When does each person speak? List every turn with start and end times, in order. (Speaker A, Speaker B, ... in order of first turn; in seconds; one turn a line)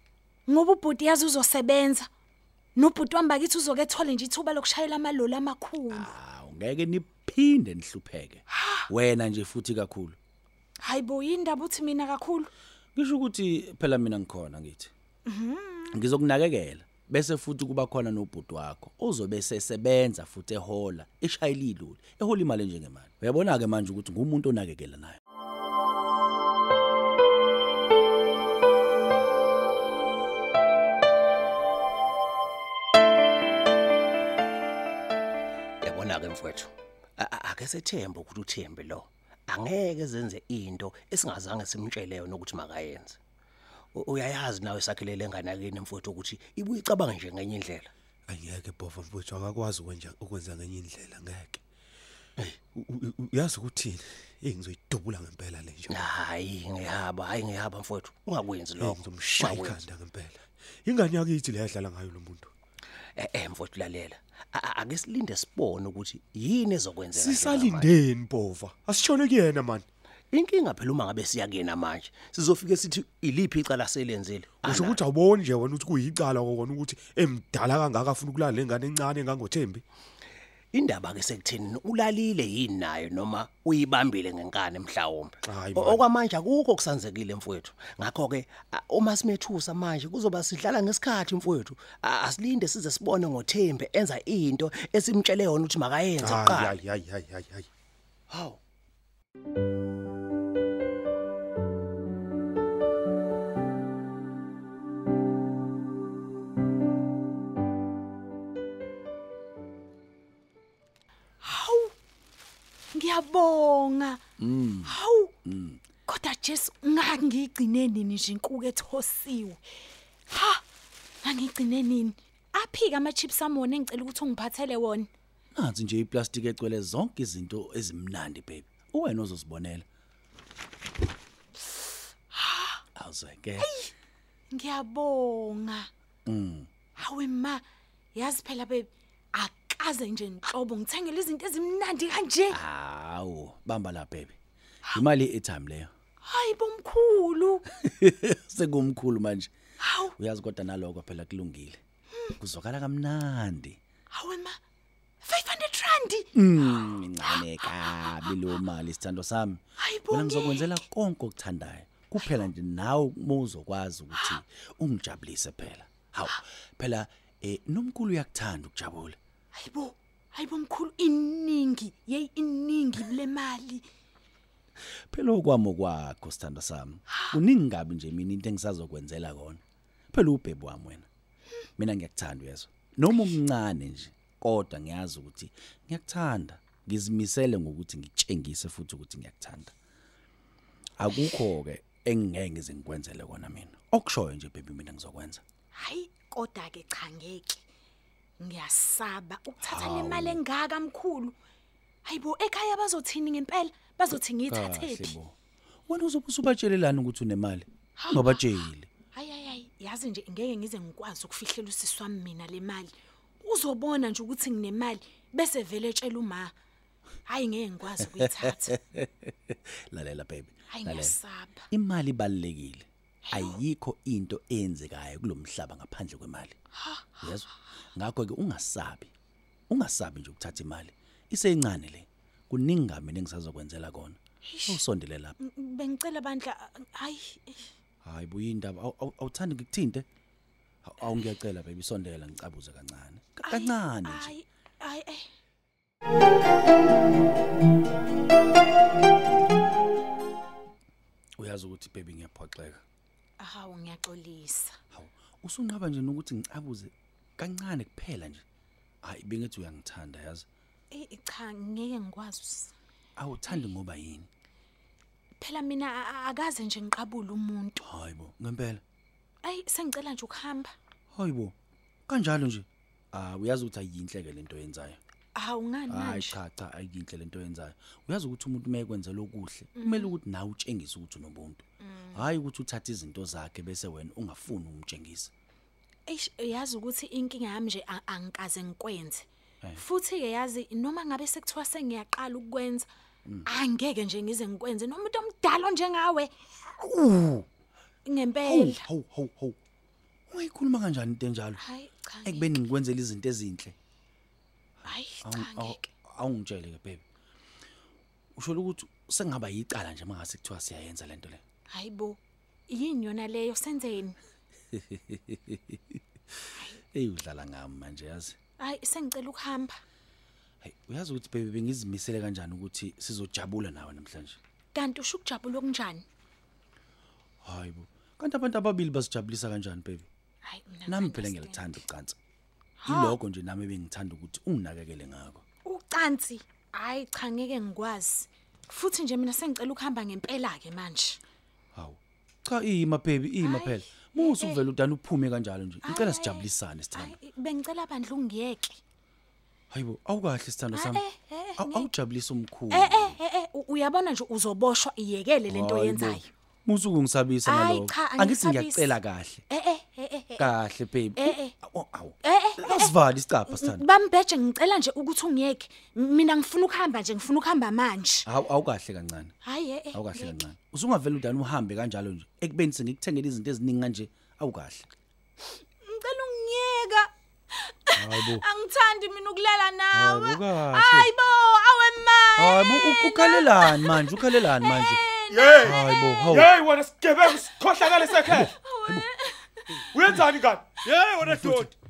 Speaker A: 0.5-2.1
Speaker A: 2.8-6.1
Speaker B: 5.9-10.2
Speaker A: 8.5-8.9
Speaker A: 10.8-12.5
Speaker B: 12.9-14.9
Speaker A: 15.3-16.0
Speaker B: 15.9-25.2
Speaker C: 35.8-43.2
Speaker C: 44.0-47.9
Speaker D: 48.3-51.6
Speaker D: 52.4-56.0
Speaker C: 55.9-59.8
Speaker D: 58.8-62.5
Speaker C: 63.2-68.0
Speaker D: 67.1-69.8
Speaker C: 70.3-75.0
Speaker D: 74.6-79.8
Speaker C: 80.7-96.8
Speaker D: 85.5-86.1
Speaker D: 96.2-97.7
Speaker C: 98.3-98.6
Speaker A: 111.4-111.9
Speaker A: 112.9-114.2
Speaker B: 114.4-115.8
Speaker A: 114.8-115.3
Speaker A: 116.1-119.6
Speaker A: 120.3-120.6
Speaker A: 121.2-125.1
Speaker B: 125.5-129.8
Speaker A: 132.3-132.8
Speaker B: 133.0-133.7
Speaker A: 133.6-133.9
Speaker A: 134.5-135.9
Speaker B: 136.3-136.7
Speaker A: 137.0-137.6
Speaker A: 138.1-142.6
Speaker B: 142.5-144.4
Speaker B: 144.9-145.9
Speaker A: 146.2-147.7
Speaker B: 147.8-149.5
Speaker A: 149.8-150.2
Speaker B: 150.2-151.8
Speaker B: 152.4-153.8
Speaker A: 154.1-154.6
Speaker A: 155.2-156.3
Speaker B: 156.3-169.2
Speaker A: 156.8-157.4
Speaker A: 159.8-160.8
Speaker A: 164.1-164.4
Speaker A: 169.5-173.9
Speaker B: 175.1-179.6
Speaker A: 177.1-177.4
Speaker B: 180.1-181.1
Speaker B: 181.8-189.7
Speaker B: 191.0-195.4
Speaker A: 195.7-197.7
Speaker A: 198.4-201.3
Speaker B: 199.6-200.4
Speaker A: 202.1-205.2
Speaker B: 204.5-205.3
Speaker B: 205.9-208.9
Speaker A: 208.0-208.5
Speaker A: 209.1-216.5
Speaker A: 217.3-218.8
Speaker B: 218.7-221.2
Speaker A: 220.7-221.7
Speaker B: 221.7-226.6
Speaker A: 223.3-223.6
Speaker A: 226.8-227.4
Speaker B: 227.2-229.1
Speaker B: 229.7-235.3
Speaker A: 234.4-234.8
Speaker A: 235.4-237.7
Speaker B: 238.0-240.1
Speaker B: 240.8-244.3
Speaker A: 243.5-245.3
Speaker B: 251.4-252.8
Speaker A: 253.4-254.8
Speaker B: 254.9-258.4
Speaker B: 259.0-260.5
Speaker A: 260.9-262.7
Speaker B: 263.2-264.3
Speaker A: 265.4-267.8
Speaker B: 267.8-268.8
Speaker A: 269.4-270.8
Speaker B: 271.1-271.6
Speaker B: 272.1-275.0
Speaker A: 275.4-276.4
Speaker B: 275.9-285.3
Speaker A: 279.8-280.2
Speaker A: 281.8-282.3
Speaker A: 286.1-292.9
Speaker A: 293.4-296.3
Speaker B: 296.8-297.4
Speaker A: 298.1-298.8
Speaker B: 298.4-299.6
Speaker B: 300.3-301.6
Speaker A: 301.6-302.5
Speaker B: 302.2-303.8
Speaker A: 304.9-305.9
Speaker B: 305.2-307.0
Speaker B: 308.4-311.4
Speaker A: 311.7-314.2
Speaker B: 314.7-316.0
Speaker B: 316.9-318.4
Speaker A: 318.6-319.8
Speaker B: 320.6-324.4
Speaker A: 324.7-326.1
Speaker B: 327.4-330.1
Speaker A: 330.4-331.8
Speaker B: 330.9-332.2
Speaker A: 332.8-333.2
Speaker B: 332.9-335.4
Speaker A: 335.6-341.2
Speaker B: 341.7-347.1
Speaker A: 343.4-344.6
Speaker A: 345.8-348.8
Speaker B: 349.7-351.0
Speaker A: 350.7-351.9
Speaker B: 351.6-353.2
Speaker A: 352.7-356.3
Speaker B: 355.5-359.4
Speaker A: 357.5-360.5
Speaker B: 360.4-363.9
Speaker A: 361.2-361.5
Speaker A: 362.2-362.9
Speaker A: 363.5-368.3
Speaker B: 368.3-369.3
Speaker A: 369.4-370.4
Speaker B: 369.9-374.9
Speaker A: 375.5-386.5
Speaker B: 377.9-378.5
Speaker B: 379.9-381.1
Speaker B: 382.4-385.0
Speaker D: 385.3-388.5
Speaker B: 385.6-386.5
Speaker A: 387.8-390.0
Speaker B: 388.2-389.1
Speaker D: 389.9-391.7
Speaker B: 391.2-391.7